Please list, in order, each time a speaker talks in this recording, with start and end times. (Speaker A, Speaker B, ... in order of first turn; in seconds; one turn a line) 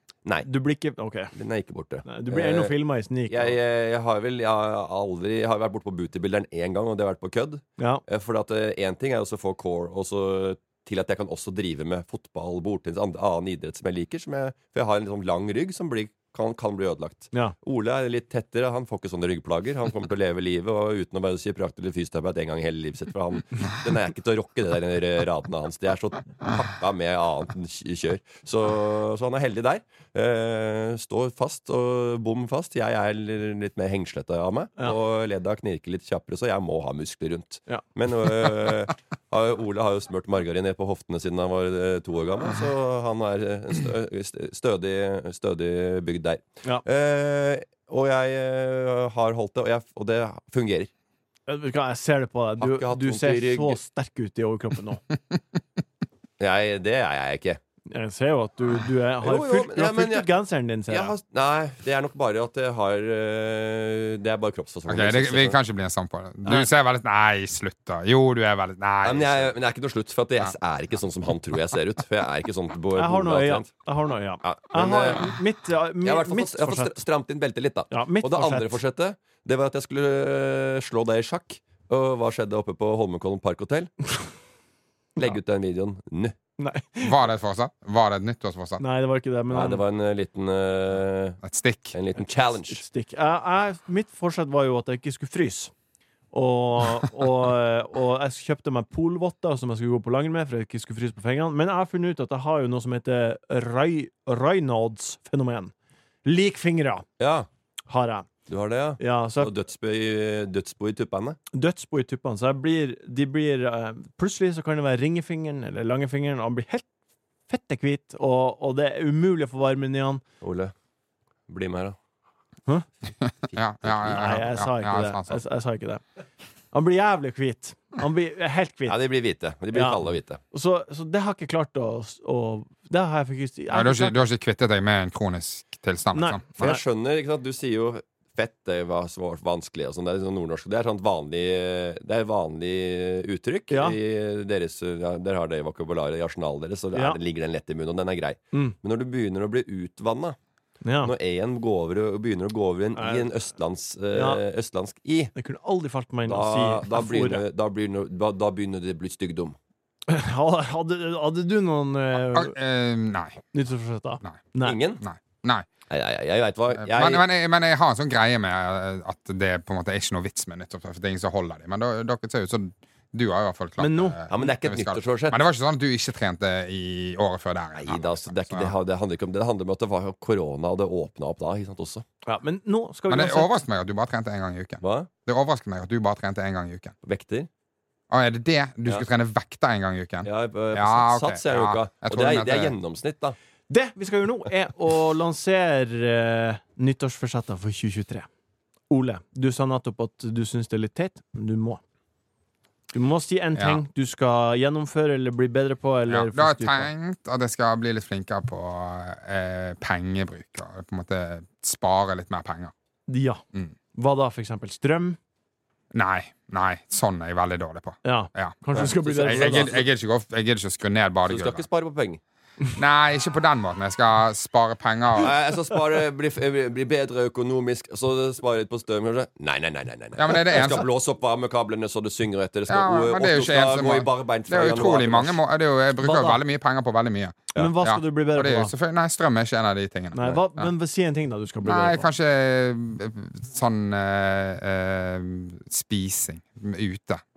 Speaker A: 0.4-1.3
Speaker B: 1.3-50.9
Speaker A: 2.0-3.6
Speaker A: 7.8-8.0
Speaker A: 51.5-55.0
Speaker B: 52.6-53.8
Speaker B: 56.4-57.6
Speaker A: 57.9-61.1
Speaker B: 59.2-60.3
Speaker B: 60.9-65.6
Speaker C: 64.9-69.5
Speaker B: 69.0-73.7
Speaker A: 73.0-77.0
Speaker B: 74.4-75.3
Speaker B: 76.0-83.9
Speaker A: 77.9-78.8
Speaker B: 85.2-86.3
Speaker A: 86.6-87.2
Speaker C: 87.0-88.8
Speaker A: 88.8-89.8
Speaker B: 89.5-91.4
Speaker C: 91.4-91.9
Speaker B: 91.9-92.8
Speaker A: 92.7-95.7
Speaker A: 96.3-105.7
Speaker A: 106.2-107.0
Speaker B: 107.2-107.5
Speaker A: 107.9-108.3
Speaker B: 108.5-111.4
Speaker A: 109.0-109.5
Speaker A: 111.5-116.8
Speaker A: 117.5-120.2
Speaker B: 120.4-120.7
Speaker B: 121.5-122.0
Speaker C: 123.2-125.4
Speaker B: 123.5-124.2
Speaker A: 124.1-126.0
Speaker A: 126.7-129.0
Speaker B: 128.9-130.4
Speaker A: 129.7-134.2
Speaker C: 133.7-136.7
Speaker A: 136.1-136.8
Speaker B: 136.6-150.4
Speaker A: 143.7-144.0
Speaker A: 146.9-147.2
Speaker A: 150.8-151.1
Speaker B: 151.0-155.3
Speaker A: 152.9-153.3
Speaker A: 154.1-154.4
Speaker A: 155.3-157.4
Speaker B: 156.2-159.6
Speaker A: 160.1-162.6
Speaker C: 162.3-163.4
Speaker A: 163.5-164.8
Speaker B: 164.6-165.0
Speaker C: 165.0-165.7
Speaker B: 165.9-167.2
Speaker C: 166.7-178.7
Speaker A: 173.8-174.2
Speaker B: 174.3-175.4
Speaker B: 177.7-182.1
Speaker A: 182.2-183.5
Speaker C: 183.1-186.9
Speaker B: 184.8-185.1
Speaker B: 187.0-187.5
Speaker C: 188.1-192.7
Speaker B: 190.2-193.3
Speaker A: 193.7-198.3
Speaker A: 198.9-201.8
Speaker A: 202.9-206.9
Speaker C: 203.6-203.8
Speaker C: 206.1-212.7
Speaker A: 213.1-213.4
Speaker A: 213.9-215.2
Speaker C: 215.9-221.6
Speaker A: 218.0-219.8
Speaker B: 218.7-219.9
Speaker B: 221.2-222.2
Speaker C: 222.7-225.3
Speaker B: 225.2-235.4
Speaker C: 230.2-230.9
Speaker C: 232.7-240.7
Speaker A: 236.0-236.4
Speaker A: 237.5-238.7
Speaker A: 240.1-242.1
Speaker C: 241.6-247.2